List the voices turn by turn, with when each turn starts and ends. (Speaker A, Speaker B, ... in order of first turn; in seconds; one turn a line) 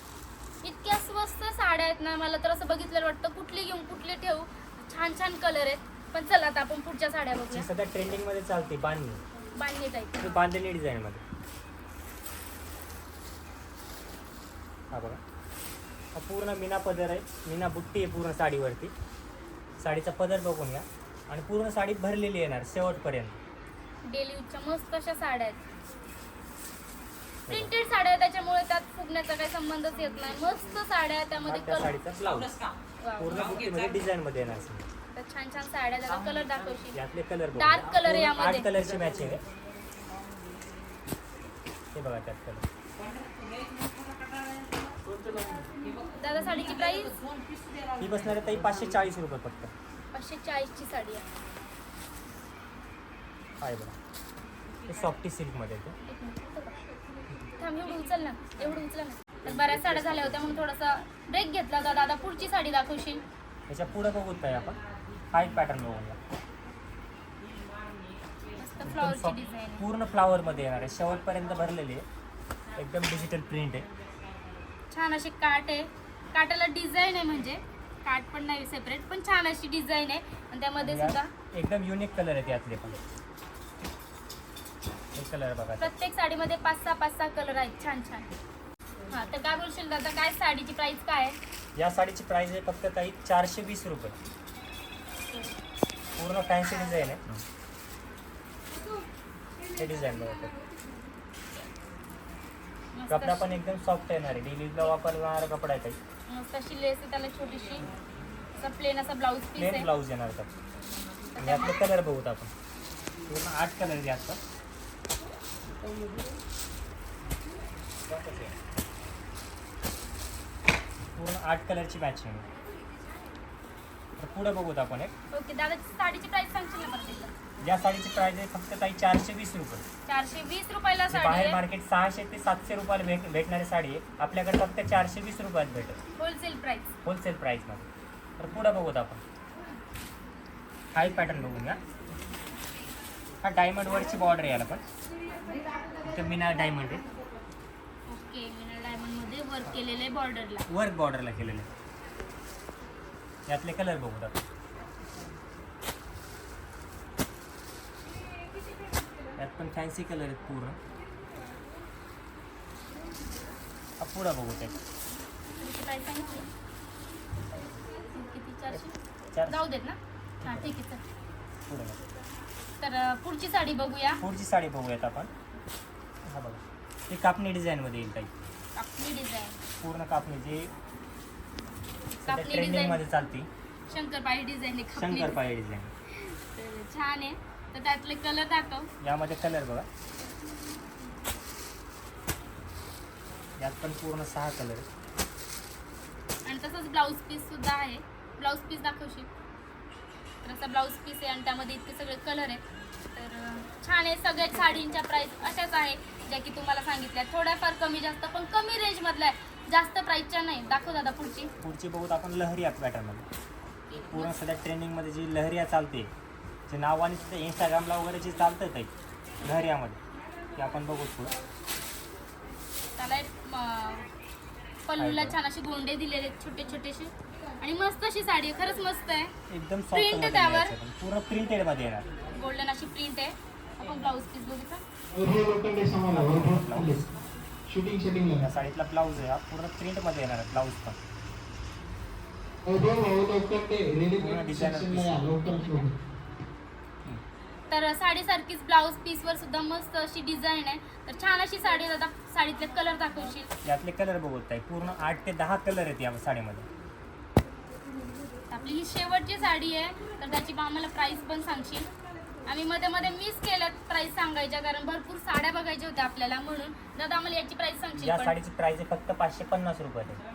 Speaker A: 0.6-7.7
Speaker B: 7.5-9.2
Speaker A: 9.6-10.4
Speaker B: 10.2-11.2
Speaker B: 14.9-15.2
Speaker B: 16.1-18.9
Speaker B: 19.8-23.4
Speaker A: 24.1-25.6
Speaker A: 27.5-31.9
Speaker B: 31.5-32.5
Speaker A: 33.0-33.5
Speaker B: 33.2-34.8
Speaker A: 35.1-37.0
Speaker B: 36.9-39.4
Speaker A: 37.5-38.7
Speaker B: 41.9-42.6
Speaker B: 45.1-45.6
Speaker A: 46.2-47.1
Speaker B: 48.0-49.7
Speaker A: 50.1-51.2
Speaker B: 53.6-53.9
Speaker B: 54.9-56.0
Speaker A: 56.0-56.8
Speaker A: 57.6-63.2
Speaker B: 59.5-60.6
Speaker B: 63.7-64.8
Speaker B: 65.3-66.2
Speaker A: 68.6-69.8
Speaker B: 68.8-72.0
Speaker B: 72.8-73.9
Speaker A: 74.9-81.3
Speaker B: 80.8-83.0
Speaker B: 85.1-86.0
Speaker A: 85.8-88.3
Speaker A: 89.1-91.4
Speaker B: 91.8-94.2
Speaker B: 96.2-97.4
Speaker B: 99.8-100.5
Speaker A: 102.9-103.5
Speaker B: 103.1-106.0
Speaker A: 106.3-107.9
Speaker A: 108.6-109.9
Speaker B: 109.5-110.5
Speaker A: 111.3-111.8
Speaker B: 111.4-112.5
Speaker B: 113.3-114.4
Speaker B: 118.1-118.5
Speaker B: 121.2-122.4
Speaker B: 124.2-125.1
Speaker A: 125.3-127.3
Speaker B: 127.6-129.8
Speaker A: 130.1-131.6
Speaker B: 131.1-136.0
Speaker A: 136.2-136.9
Speaker B: 137.0-137.9
Speaker B: 138.4-139.2
Speaker B: 140.9-141.8
Speaker B: 143.4-144.8
Speaker B: 146.0-147.0
Speaker A: 148.1-150.7
Speaker B: 150.7-151.7
Speaker B: 153.5-154.4
Speaker B: 159.4-160.8
Speaker B: 164.0-164.8
Speaker A: 165.6-166.5
Speaker A: 168.0-171.0
Speaker B: 168.7-169.6
Speaker B: 170.4-170.8
Speaker B: 171.7-172.0
Speaker A: 172.8-174.2
Speaker B: 174.2-175.3
Speaker B: 176.2-178.3
Speaker A: 178.8-179.6
Speaker B: 179.8-180.7
Speaker A: 182.2-183.0
Speaker B: 182.3-183.5
Speaker A: 183.9-185.4
Speaker B: 185.0-185.9
Speaker A: 186.1-188.9
Speaker B: 189.0-189.9
Speaker B: 193.6-194.8
Speaker A: 196.4-199.3
Speaker A: 200.4-202.6
Speaker A: 203.1-211.5
Speaker B: 211.6-213.2
Speaker A: 213.9-214.3
Speaker B: 214.1-216.1
Speaker B: 216.7-218.9
Speaker B: 219.4-220.0
Speaker B: 220.6-221.4
Speaker A: 223.0-224.1
Speaker A: 224.9-229.3
Speaker B: 225.0-225.4
Speaker B: 229.5-232.1
Speaker A: 229.9-230.7
Speaker A: 232.3-234.8
Speaker C: 235.1-237.1
Speaker B: 236.1-237.0
Speaker C: 237.7-238.4
Speaker B: 238.4-241.0
Speaker C: 242.6-245.9
Speaker B: 244.2-245.3
Speaker A: 245.4-245.8
Speaker A: 247.7-253.5
Speaker B: 253.6-256.7
Speaker A: 258.5-261.9
Speaker A: 262.5-268.3
Speaker B: 268.0-270.2